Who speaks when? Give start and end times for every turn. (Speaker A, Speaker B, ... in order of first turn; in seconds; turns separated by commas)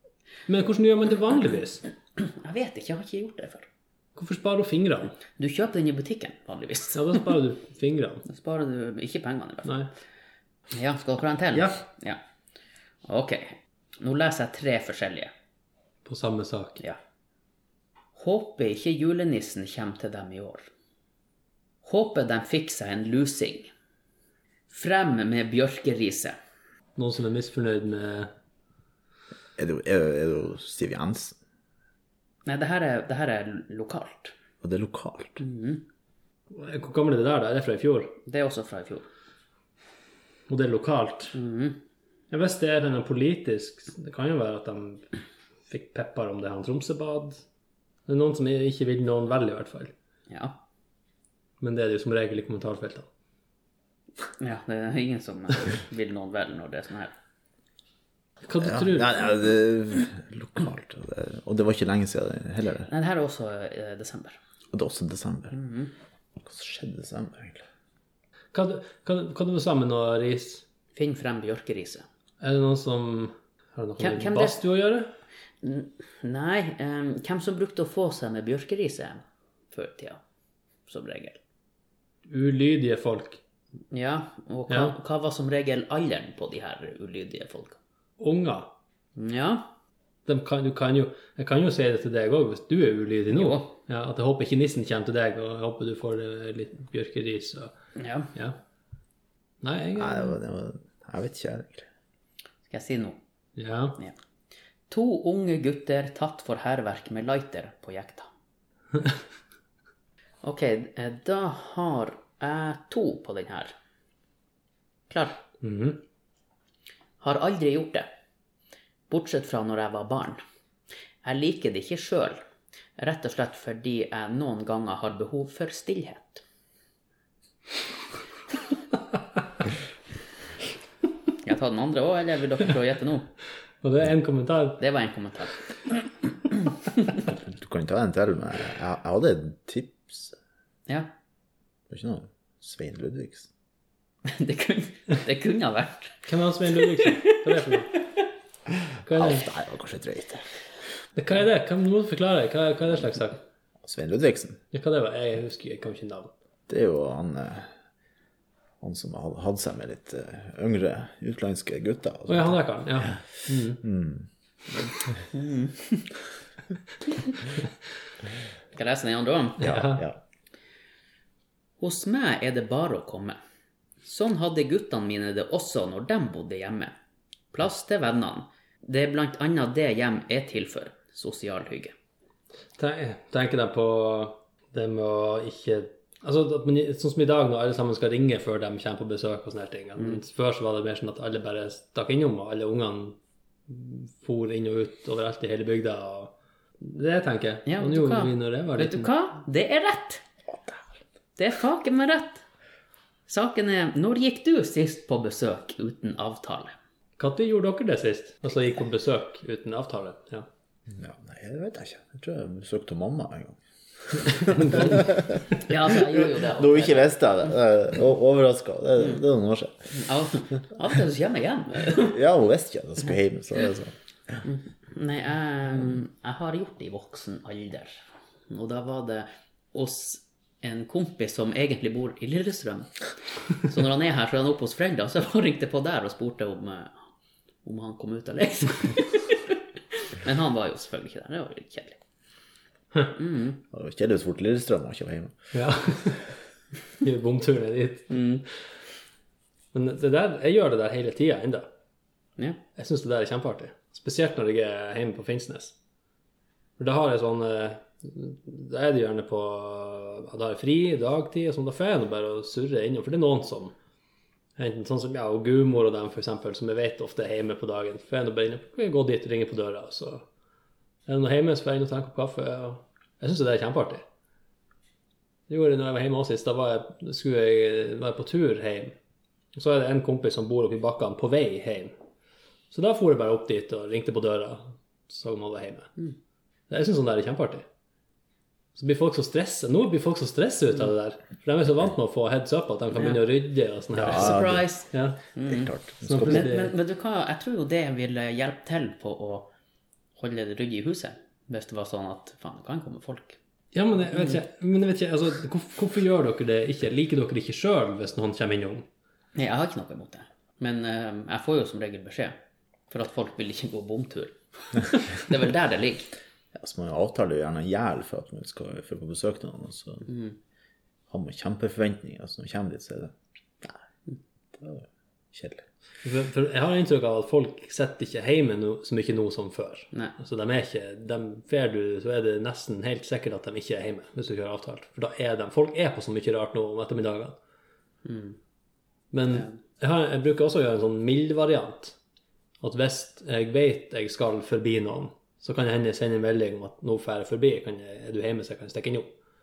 Speaker A: 0.5-1.8, Speaker B: 2.2-3.7, Speaker A: 4.2-5.2, Speaker B: 5.4-7.3, Speaker A: 6.9-8.2, Speaker B: 8.3-9.8, Speaker B: 10.7-12.2, Speaker B: 13.1-15.3, Speaker A: 16.1-16.8, Speaker B: 18.1-20.7, Speaker B: 21.8-23.7, Speaker B: 24.7-26.4, Speaker A: 27.0-28.3, Speaker C: 29.6-31.4, Speaker B: 32.5-34.3, Speaker C: 34.6-35.4, Speaker B: 35.4-35.8, Speaker A: 36.5-38.2, Speaker B: 38.2-39.1, Speaker A: 40.5-41.4, Speaker B: 41.3-41.8, Speaker A: 42.3-45.1, Speaker A: 45.7-47.4, Speaker A: 48.1-49.9, Speaker B: 50.3-50.6, Speaker A: 51.6-53.1, Speaker B: 54.4-57.1, Speaker A: 58.4-59.3, Speaker C: 58.6-62.9, Speaker B: 62.9-64.4, Speaker C: 64.7-65.5, Speaker B: 65.5-65.9, Speaker C: 66.4-67.6, Speaker A: 68.5-70.6, Speaker B: 71.0-72.0, Speaker A: 72.4-75.1, Speaker B: 74.0-74.6, Speaker B: 75.6-80.2, Speaker B: 80.9-81.4, Speaker A: 82.3-83.4, Speaker B: 83.9-87.8, Speaker A: 84.7-85.0, Speaker A: 88.2-88.7, Speaker B: 89.2-89.7, Speaker A: 90.3-97.7, Speaker B: 93.3-93.7, Speaker B: 98.0-98.3, Speaker A: 99.6-100.4, Speaker C: 100.0-101.9, Speaker B: 102.7-103.2, Speaker A: 103.6-104.0, Speaker B: 104.9-108.3, Speaker B: 110.4-113.7, Speaker B: 115.1-115.4, Speaker A: 115.6-116.0, Speaker B: 117.2-118.1, Speaker B: 119.1-120.4, Speaker B: 121.2-122.4, Speaker B: 123.0-126.4, Speaker B: 131.4-133.3, Speaker A: 133.8-134.8, Speaker B: 134.8-135.6, Speaker B: 136.5-137.2, Speaker C: 137.3-140.3, Speaker C: 141.9-143.5, Speaker B: 144.2-146.2, Speaker A: 146.3-147.9, Speaker B: 146.8-148.0, Speaker A: 149.0-149.5, Speaker C: 149.1-150.4, Speaker A: 151.2-153.4, Speaker C: 153.8-154.6, Speaker A: 154.7-156.3, Speaker C: 156.7-157.7, Speaker C: 158.8-162.6, Speaker A: 162.3-163.8, Speaker C: 163.8-164.3, Speaker B: 165.3-166.1, Speaker B: 168.7-169.8, Speaker A: 169.6-170.0, Speaker C: 169.6-170.2, Speaker B: 171.8-173.4, Speaker B: 174.0-176.9, Speaker B: 177.5-181.9, Speaker A: 182.8-193.2, Speaker A: 193.7-199.1, Speaker B: 197.7-200.2, Speaker C: 200.5-200.8, Speaker B: 201.4-202.4, Speaker B: 203.3-206.8, Speaker A: 207.2-210.5, Speaker C: 210.9-219.9, Speaker A: 214.5-214.8, Speaker B: 215.6-217.2, Speaker B: 219.9-222.2, Speaker C: 221.9-223.9, Speaker B: 224.4-232.9, Speaker B: 233.6-236.9, Speaker B: 237.6-242.0, Speaker B: 243.1-243.6, Speaker C: 243.7-245.4, Speaker A: 245.5-246.3, Speaker A: 247.0-248.4, Speaker B: 248.1-248.4, Speaker A: 249.7-251.7, Speaker A: 252.8-255.8, Speaker A: 256.8-263.8, Speaker A: 264.6-270.3, Speaker A: 271.1-274.1, Speaker A: 275.5-278.9, Speaker A: 279.6-282.0, Speaker A: 282.7-285.9, Speaker A: 286.7-287.7, Speaker A: 288.8-295.2, Speaker C: 293.9-294.6, Speaker B: 294.0-295.7, Speaker C: 295.5-296.5, Speaker A: 296.0-296.7, Speaker B: 296.2-299.5, Speaker B: 300.2-303.4, Speaker A: 303.7-308.9, Speaker B: 309.4-312.4, Speaker B: 312.9-316.1, Speaker C: 316.6-320.1, Speaker B: 320.1-320.4, Speaker C: 321.1-323.8, Speaker C: 324.5-325.6, Speaker A: 326.0-337.4, Speaker B: 338.1-338.4, Speaker A: 339.1-342.0, Speaker A: 342.6-349.1